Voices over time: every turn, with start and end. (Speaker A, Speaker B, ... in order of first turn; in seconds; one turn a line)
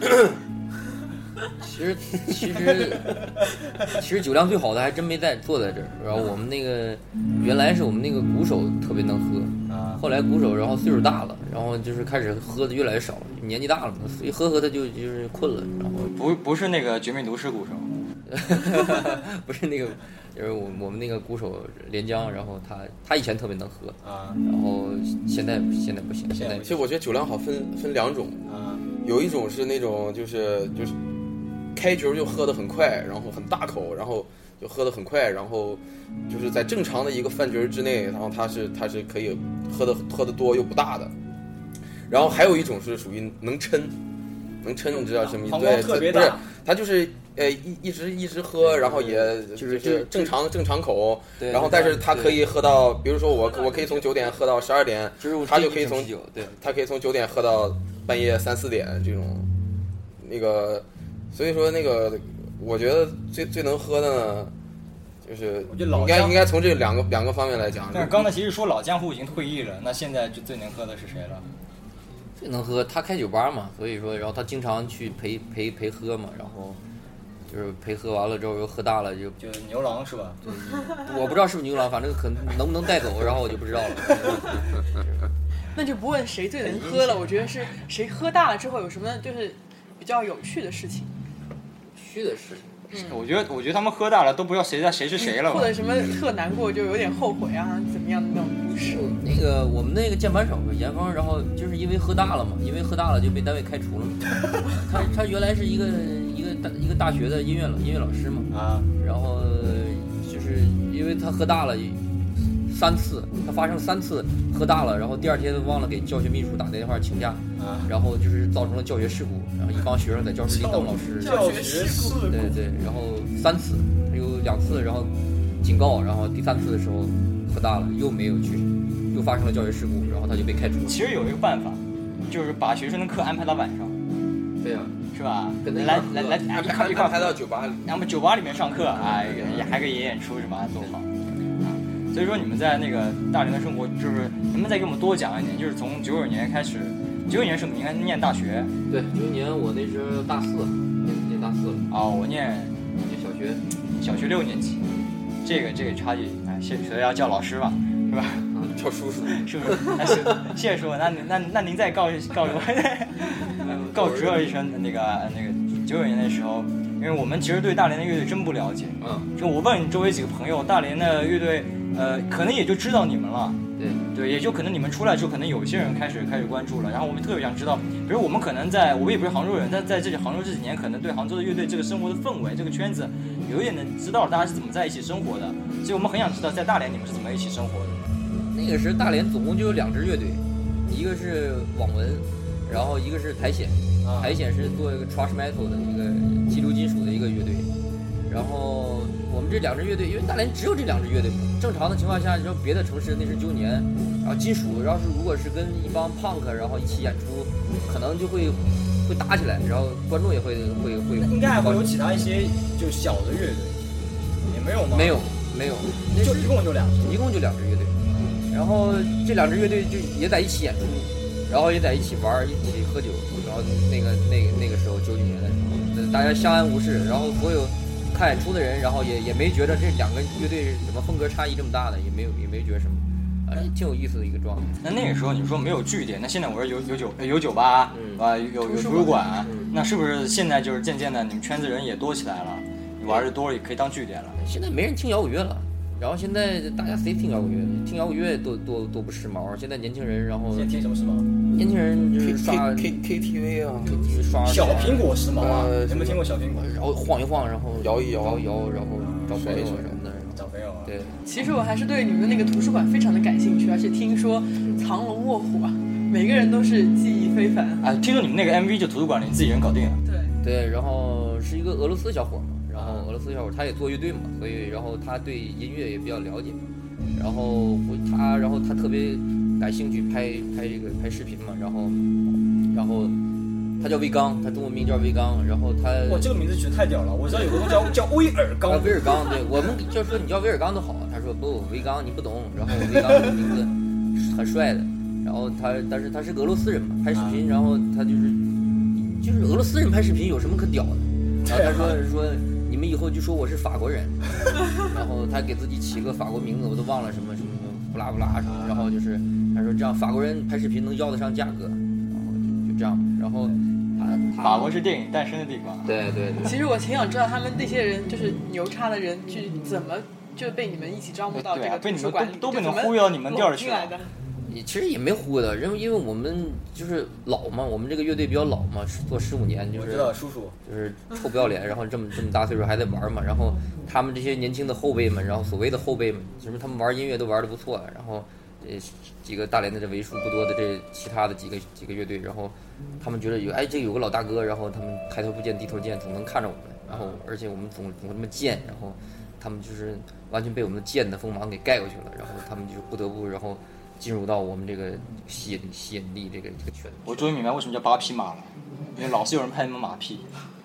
Speaker A: 1.6-16.1
Speaker B: 9.7-10.0
Speaker B: 16.1-17.9
Speaker A: 18.3-26.8
Speaker B: 24.0-24.4
Speaker B: 26.3-26.6
Speaker C: 26.6-28.5
Speaker B: 28.4-28.8
Speaker C: 29.0-30.9
Speaker C: 31.7-41.1
Speaker C: 42.1-43.9
Speaker C: 44.6-59.5
Speaker B: 45.4-46.4
Speaker A: 48.6-50.4
Speaker A: 51.4-52.5
Speaker D: 53.3-54.3
Speaker A: 55.2-56.6
Speaker C: 60.2-64.5
Speaker C: 65.2-68.3
Speaker B: 65.7-66.4
Speaker B: 67.9-71.5
Speaker A: 72.4-76.8
Speaker A: 77.5-79.4
Speaker B: 79.4-80.4
Speaker A: 80.4-85.3
Speaker D: 85.7-91.1
Speaker A: 86.6-87.2
Speaker A: 91.9-92.8
Speaker D: 92.9-93.2
Speaker B: 92.9-95.7
Speaker D: 95.2-99.0
Speaker A: 98.7-121.5
Speaker B: 108.5-108.9
Speaker B: 117.6-117.9
Speaker B: 120.4-122.6
Speaker D: 121.2-122.2
Speaker A: 122.3-131.0
Speaker B: 130.8-134.0
Speaker A: 134.6-135.0
Speaker B: 135.1-141.1
Speaker A: 135.6-136.4
Speaker C: 136.4-137.9
Speaker A: 139.0-139.8
Speaker B: 142.1-148.7
Speaker A: 148.9-151.8
Speaker B: 151.9-152.8
Speaker A: 153.0-153.6
Speaker B: 154.0-154.9
Speaker B: 155.4-158.5
Speaker C: 158.6-159.8
Speaker B: 159.2-173.6
Speaker A: 159.7-160.1
Speaker A: 163.5-164.6
Speaker A: 169.0-169.3
Speaker A: 173.8-174.0
Speaker B: 174.1-188.2
Speaker A: 188.3-197.7
Speaker B: 194.0-194.4
Speaker A: 198.3-211.9
Speaker B: 211.2-213.8
Speaker B: 214.5-215.3
Speaker A: 214.8-234.8
Speaker B: 216.2-217.2
Speaker B: 234.8-244.4
Speaker A: 237.9-239.8
Speaker A: 244.4-250.7
Speaker B: 250.5-251.3
Speaker A: 251.5-253.0
Speaker C: 252.2-254.0
Speaker A: 253.8-255.2
Speaker B: 254.4-256.7
Speaker C: 254.7-256.2
Speaker A: 256.5-261.2
Speaker C: 257.7-258.4
Speaker B: 259.0-259.3
Speaker C: 259.3-260.0
Speaker B: 260.3-260.9
Speaker D: 261.2-267.9
Speaker B: 267.8-270.0
Speaker D: 270.0-270.3
Speaker A: 270.4-276.6
Speaker B: 272.7-273.1
Speaker A: 277.1-282.1
Speaker A: 282.6-283.2
Speaker A: 283.8-286.3
Speaker B: 286.0-289.3
Speaker A: 287.3-287.7
Speaker A: 288.6-304.2
Speaker B: 297.1-297.4
Speaker B: 301.4-302.0
Speaker A: 304.7-314.7
Speaker B: 308.4-308.9
Speaker B: 314.4-315.9
Speaker A: 315.8-316.6
Speaker D: 316.4-324.1
Speaker B: 321.3-324.0
Speaker A: 324.5-357.3
Speaker B: 329.7-330.6
Speaker B: 346.9-347.1
Speaker B: 357.0-360.3